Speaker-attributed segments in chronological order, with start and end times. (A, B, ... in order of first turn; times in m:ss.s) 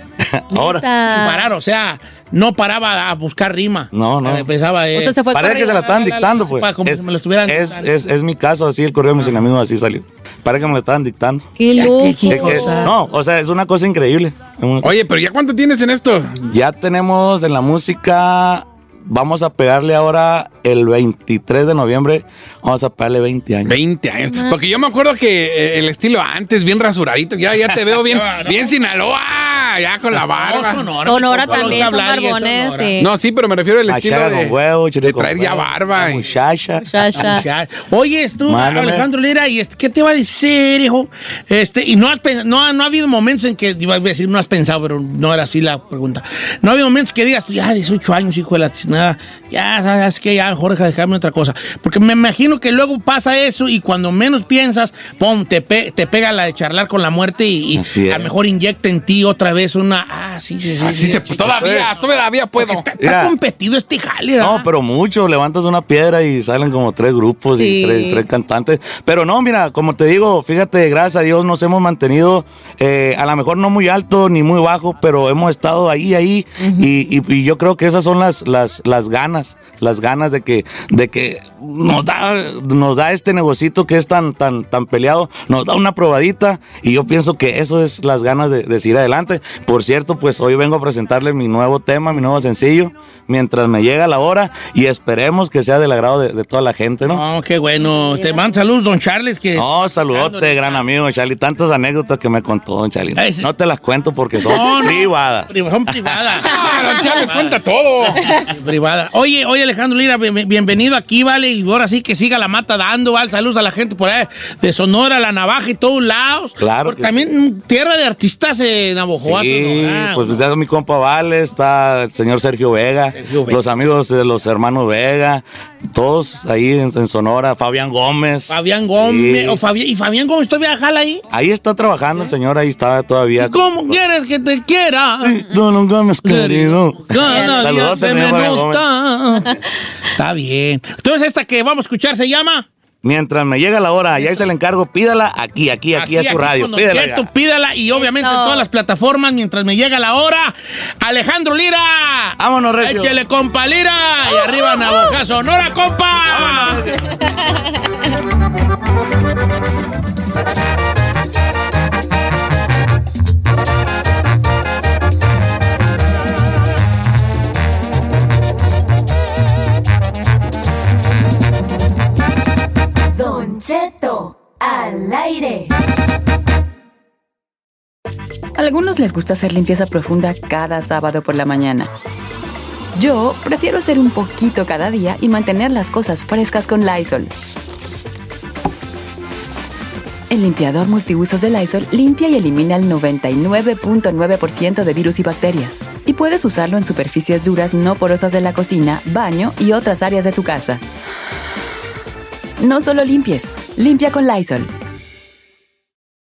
0:00.5-0:00.9 A
0:00.5-0:01.5 B
0:00.9-0:07.9 C
0:03.9-0:04.5 A
0:04.9-0:06.0 B
0:05.3-0:11.5 A
0:11.6-0:12.9 B
0:11.7-0:13.0 C
0:12.2-0:14.9 A
0:14.8-0:16.4 D
0:16.5-0:23.8 A
0:23.6-0:30.8 D
0:28.1-0:28.7 C
0:30.3-0:33.0 C
0:31.0-0:33.1 B
0:31.5-0:31.8 D
0:33.0-0:36.3 D
0:33.8-0:37.2 A
0:36.8-0:37.4 B
0:37.2-1:01.9 C
0:38.5-0:39.0 A
0:57.7-0:58.3 A
1:00.8-1:02.9 D
1:02.5-1:04.7 C
1:03.0-1:03.3 A
1:04.4-1:37.2 A
1:07.6-1:08.2 B
1:16.6-1:16.9 B
1:37.0-1:40.8 C
1:39.6-1:46.4 A
1:43.2-1:43.5 C
1:44.4-2:00.4 C
1:46.4-1:48.3 D
1:56.6-1:57.2 A
1:59.1-2:09.6 A
2:03.1-2:03.6 C
2:08.5-2:11.2 C
2:11.3-2:14.0 A
2:13.4-2:15.4 C
2:15.2-2:18.8 A
2:16.2-2:19.6 C
2:17.2-2:17.7 B
2:20.1-2:22.7 C
2:23.0-2:27.2 A
2:25.9-2:36.9 C
2:27.9-2:28.6 B
2:32.4-2:33.2 A
2:34.4-2:35.2 B
2:36.2-2:37.0 A
2:53.1-2:55.7 E
2:58.5-3:01.9 F
3:02.9-3:07.5 F
3:10.3-3:20.8 F
3:22.6-3:24.7 F